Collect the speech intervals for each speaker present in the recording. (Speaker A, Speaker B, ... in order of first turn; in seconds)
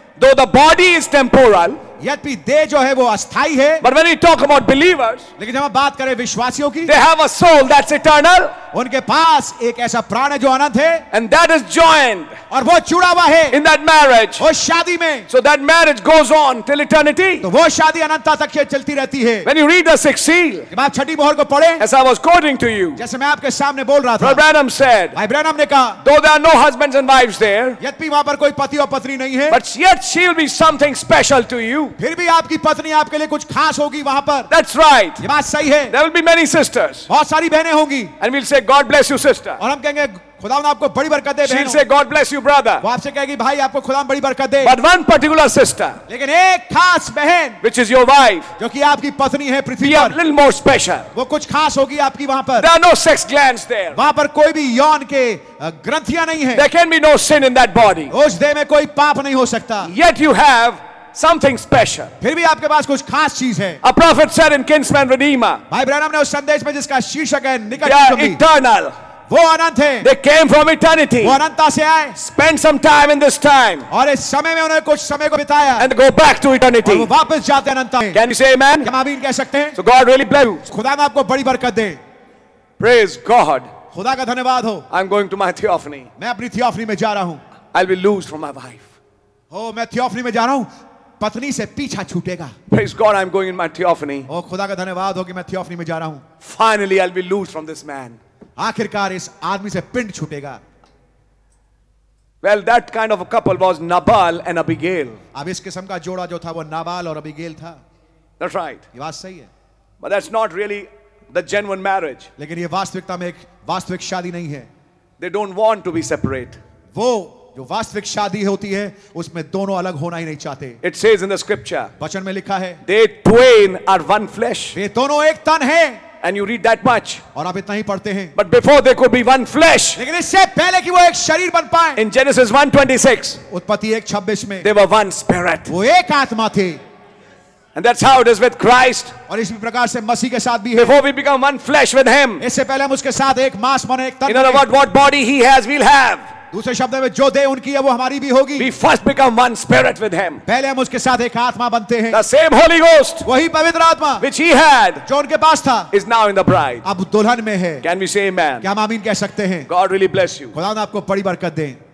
Speaker A: 0.2-1.8, 3.8-5.3, 6.8-8.6, 11.1-12.4, 13.5-14.4, 15.3-17.5, 19.4-20.7, 21.8-23.0, 24.2-25.2, 26.0-27.8, 29.5-31.9, 34.5-35.2, 35.9-37.1, 38.2-39.6, 41.4-42.9, 44.6-46.0, 47.6-48.5, 49.8-51.1, 52.6-54.0, 56.5-58.1, 59.8-62.1, 63.8-65.6, 67.8-68.9, 70.0-71.4, 72.2-73.9, 75.8-77.1, 78.1-78.9, 79.7-80.6, 82.8-83.7, 84.9-86.1, 87.7-88.9, 92.7-94.3, 96.4-98.2, 102.4-105.2, 108.4-108.8, 110.0-112.3, 115.2-116.6, 120.8-121.9, 122.8-124.8, 126.2-127.2, 128.3-130.0, 131.9-133.4, 134.6-135.7, 137.8-139.1, 140.7-142.4, 144.3-146.3, 148.6-150.4, 152.1-153.3, 154.2-155.0, 155.9-156.8, 157.8-158.7, 159.7-160.5
Speaker B: 2.0-3.8, 5.4-6.9, 8.7-11.1, 12.5-13.6, 14.4-15.3, 17.4-19.5, 20.7-21.8, 22.9-24.4, 25.1-26.0, 27.8-29.6, 32.0-34.5, 35.2-35.9, 37.1-38.1, 39.6-41.8, 42.8-44.8, 46.1-47.6, 48.6-50.2, 51.1-52.7, 53.9-56.6, 58.1-59.9, 62.2-63.8, 65.7-68.4, 69.3-70.1, 71.2-72.2, 73.9-75.9, 76.8-78.2, 78.8-79.8, 80.7-82.0, 83.9-84.8, 86.2-87.4, 89.5-92.5, 94.3-96.2, 98.6-100.6, 105.3-107.8, 108.9-109.5, 112.4-114.7, 116.9-120.8, 122.0-122.8, 124.7-126.0, 127.3-128.3, 129.9-132.0, 133.5-134.7, 135.7-136.8, 139.3-141.0, 142.4-144.6, 146.5-148.7, 150.4-152.2, 153.2-154.2, 155.0-155.9, 156.8-157.8, 158.6-159.7, 160.5-161.8